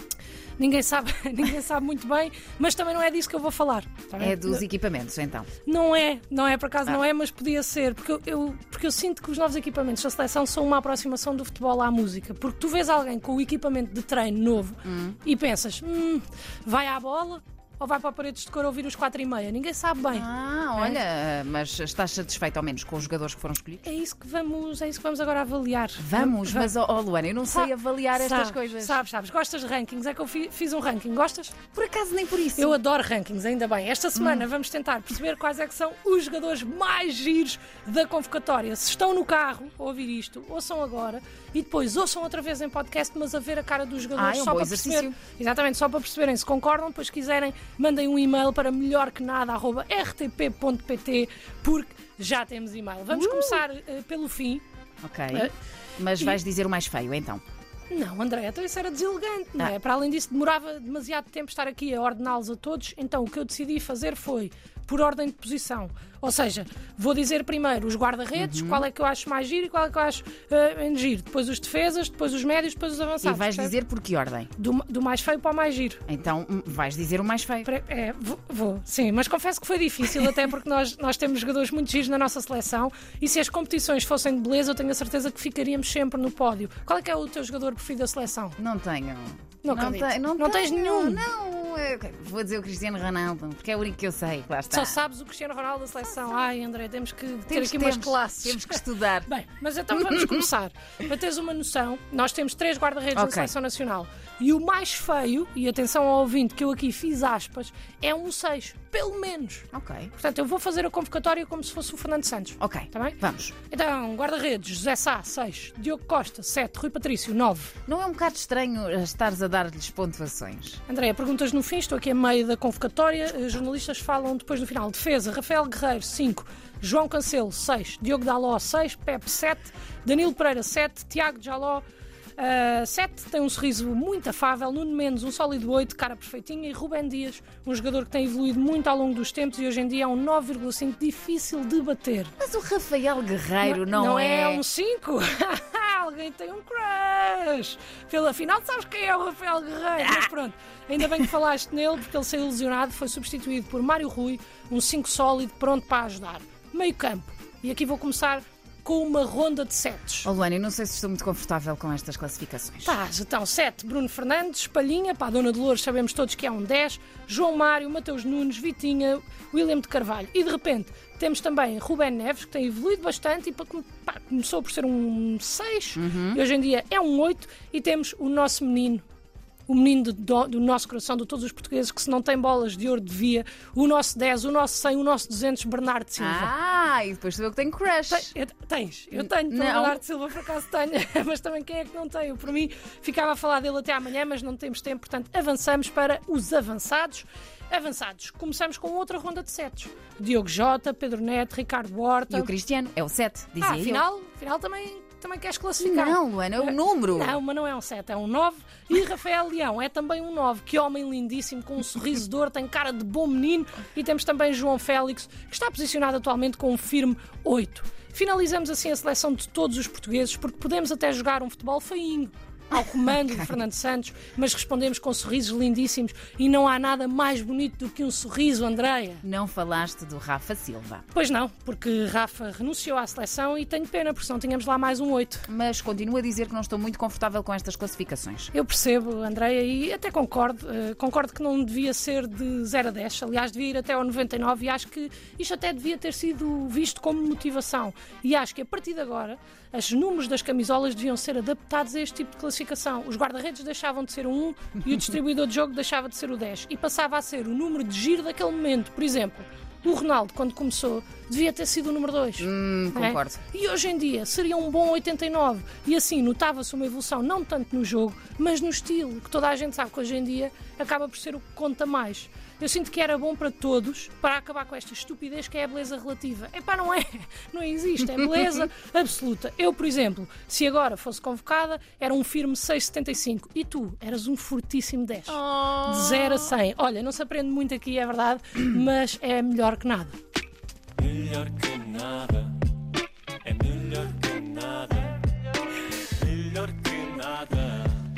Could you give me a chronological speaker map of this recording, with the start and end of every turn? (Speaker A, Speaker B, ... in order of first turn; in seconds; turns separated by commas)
Speaker A: 0.6-4.6, Speaker B: 4.2-5.5, Speaker A: 5.7-20.3, Speaker B: 14.8-15.2, Speaker B: 20.1-23.9, Speaker A: 23.8-26.7, Speaker B: 26.0-29.0, Speaker A: 27.5-31.6, Speaker B: 31.7-32.8, Speaker A: 32.6-54.6, Speaker B: 34.1-34.5, Speaker B: 44.2-45.2, Speaker B: 53.1-53.6, Speaker B: 55.0-57.4, Speaker A: 57.9-73.7, Speaker B: 68.4-68.9, Speaker B: 73.2-74.5, Speaker A: 74.6-76.0, Speaker B: 76.1-77.7, Speaker A: 77.7-88.6, Speaker B: 88.6-95.0, Speaker A: 89.6-91.2, Speaker A: 94.7-117.8, Speaker B: 97.5-99.3, Speaker B: 99.9-100.5, Speaker B: 103.2-103.5, Speaker B: 109.7-110.1, Speaker B: 112.6-113.5, Speaker B: 117.9-120.8, Speaker A: 120.9-131.8, Speaker A: 132.4-142.4, Speaker B: 142.4-144.6, Speaker A: 143.6-160.3, Speaker B: 160.2-163.0, Speaker A: 162.8-179.0, Speaker B: 176.0-176.4, Speaker A: 179.7-186.5, Speaker B: 186.2-188.3, Speaker A: 188.1-202.5, Speaker B: 189.2-190.0, Speaker B: 202.3-204.1, Speaker A: 203.6-229.2, Speaker B: 205.8-207.4, Speaker B: 223.2-223.5, Speaker B: 229.2-231.1, Speaker A: 231.1-235.5, Speaker B: 235.5-238.5, Speaker A: 238.5-290.2, Speaker B: 262.4-263.4, Speaker B: 278.2-278.5, Speaker B: 285.3-286.6, Speaker C: 291.0-292.6, Speaker C: 293.4-295.2, Speaker C: 296.2-297.9